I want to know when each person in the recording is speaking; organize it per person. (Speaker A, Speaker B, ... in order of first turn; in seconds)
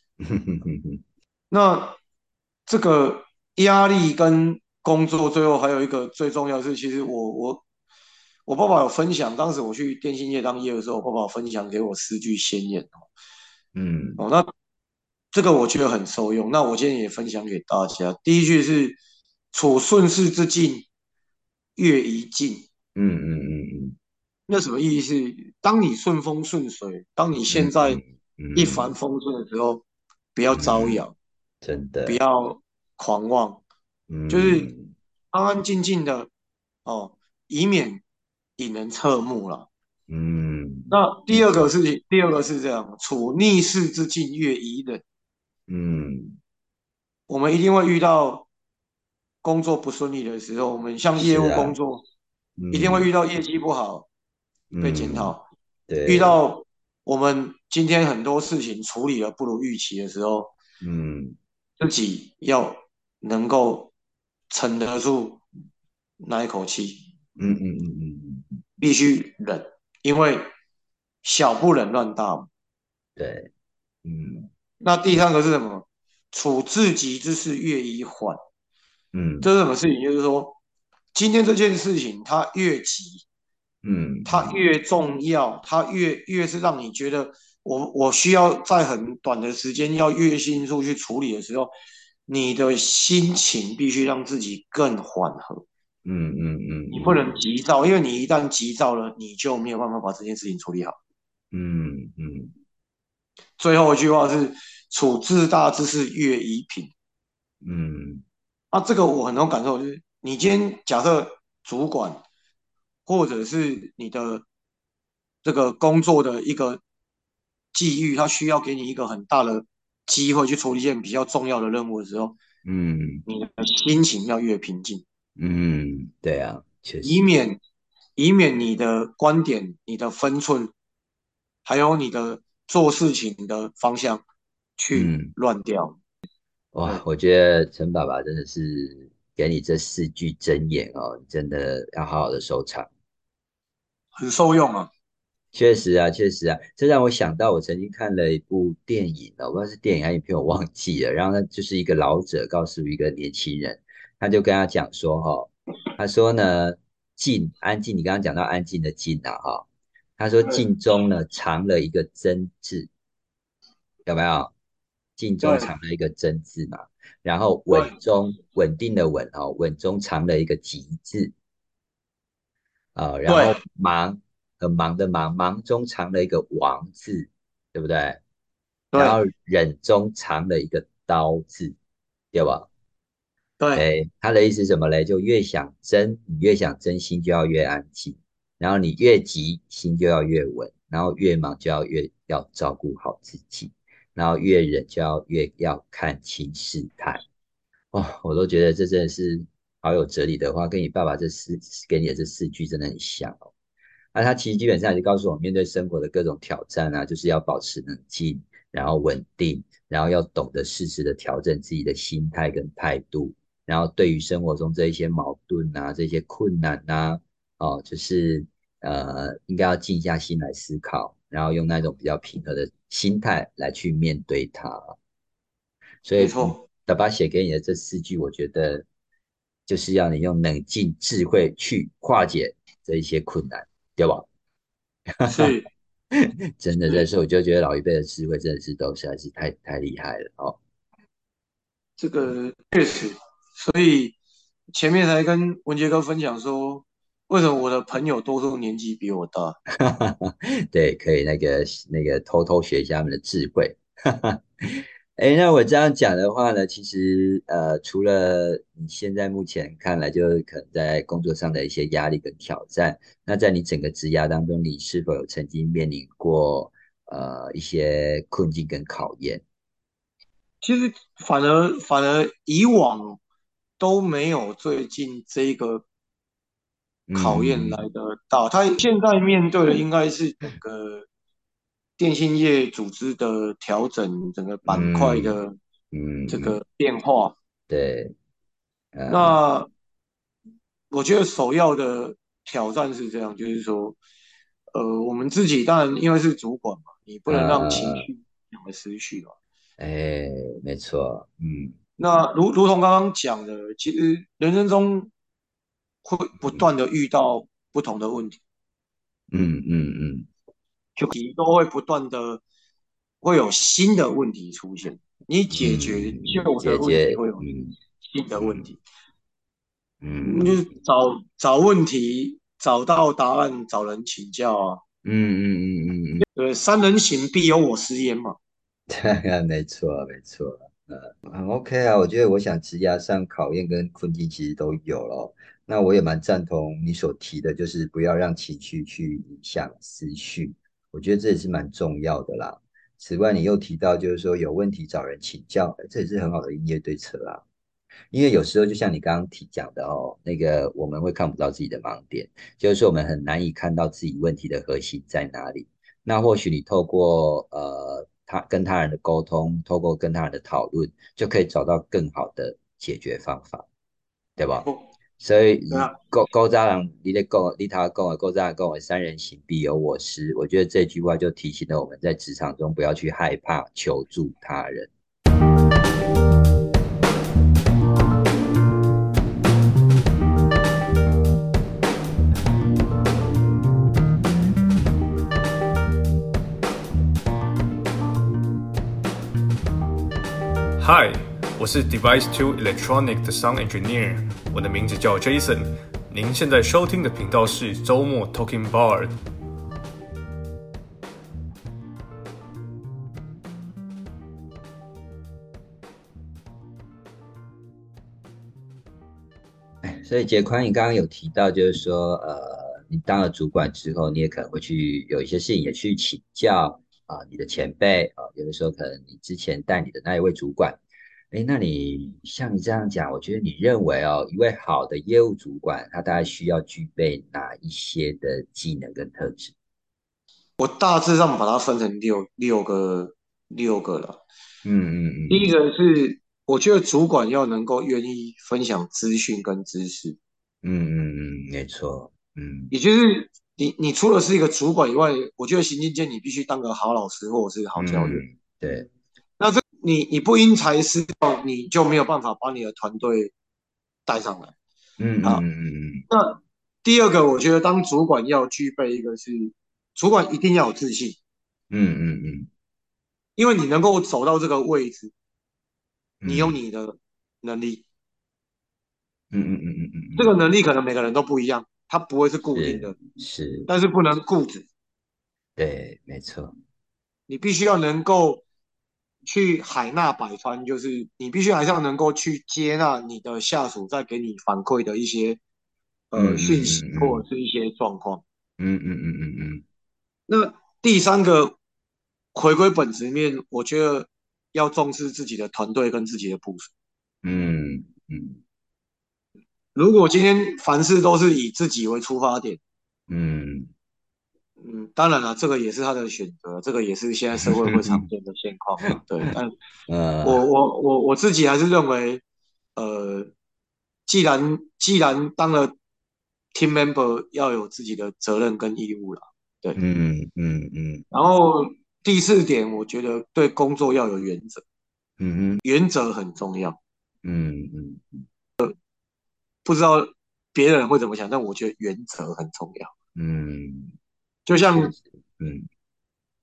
Speaker A: 0.2-1.0, 13.8-14.2, 22.9-24.0, 27.5-28.9, 30.5-31.0, 31.6-32.2, 34.1-34.9, 40.1-41.7, 45.7-46.4, 51.1-51.8, 52.6-53.1, 54.7-55.4, 55.9-56.4, 60.8-61.4, 67.4-68.6, 73.2-73.5, 74.0-74.5, 79.1-79.5, 83.8-84.6, 96.0-97.4, 101.5-102.5, 107.6-108.2, 122.6-123.2, 125.4-127.2, 134.9-135.3, 136.7-142.9, 145.5-159.7, 160.2-162.9, 164.1-164.5, 165.2-171.3, 172.9-178.2, 178.9-181.8, 182.3-182.7, 183.8-197.2, 197.9-203.5, 204.1-224.9, 226.0-228.8, 229.7-234.3, 235.2-235.5, 236.1-240.6, 249.8-269.4, 277.1-277.8, 284.7-285.4, 285.9-286.6, 287.7-288.1, 288.9-289.4, 297.3-298.1, 299.8-301.8, 309.3-310.3, 315.6-317.8, 318.4-318.7, 320.0-320.6, 325.0-326.2, 328.9-347.4, 348.1-363.7, 364.4-364.7, 365.2-374.9, 409.8-420.8, 421.3-429.5, 434.6-435.5, 440.6-442.7, 447.8-448.9, 455.0-456.1, 461.7-462.5, 466.2-466.6, 469.3-470.3, 472.6-473.7, 475.6-476.5, 486.2-487.2, 488.6-489.6, 497.2-498.4, 503.1-503.7, 507.4-508.1, 509.9-510.4, 519.8-521.0, 525.2-525.6, 527.2-528.2, 533.2-533.9, 534.5-535.7
Speaker B: 1.5-2.0, 2.7-7.6, 8.5-13.1, 14.2-14.5, 15.3-19.0, 19.5-20.9, 21.8-22.7, 24.5-28.0, 28.6-29.8, 30.4-31.1, 32.1-33.6, 34.3-34.7, 35.3-36.3, 36.9-38.0, 38.6-39.7, 40.9-45.0, 47.3-48.5, 49.4-52.0, 52.7-54.1, 54.8-55.5, 56.1-60.5, 61.8-63.9, 64.5-65.4, 66.2-67.0, 68.8-70.5, 71.2-72.5, 74.8-78.4, 79.4-80.6, 81.1-83.2, 84.3-91.7, 92.3-95.7, 96.9-101.0, 103.6-106.9, 108.7-112.2, 113.1-114.5, 115.4-116.8, 117.7-122.4, 123.3-125.0, 127.0-127.6, 128.2-130.7, 131.6-134.2, 134.8-136.0, 144.2-144.9, 165.4-165.7, 173.3-173.6, 178.9-179.2, 183.6-183.9, 226.2-226.6, 235.3-235.7, 242.0-244.2, 244.8-249.6, 270.6-273.2, 273.8-275.9, 277.1-281.1, 282.0-285.6, 286.3-287.4, 289.1-289.7, 290.9-294.0, 294.7-299.4, 302.0-305.1, 306.0-308.4, 311.0-312.4, 313.2-317.4, 318.0-318.8, 320.2-324.8, 326.4-328.4, 365.7-365.9, 430.6-434.2, 435.3-440.2, 442.7-448.2, 449.4-453.3, 454.1-454.5, 456.1-461.2, 463.4-465.1, 466.2-467.9, 470.2-472.9, 473.7-474.7, 477.3-478.4, 479.3-485.4, 486.1-488.2, 490.3-491.6, 492.3-496.7, 499.7-502.6, 504.6-509.5, 510.2-512.2, 512.8-513.3, 514.1-515.8, 516.5-519.8, 521.1-524.6, 525.6-526.8, 529.6-532.9, 534.5-535.0
Speaker C: 390.8-399.2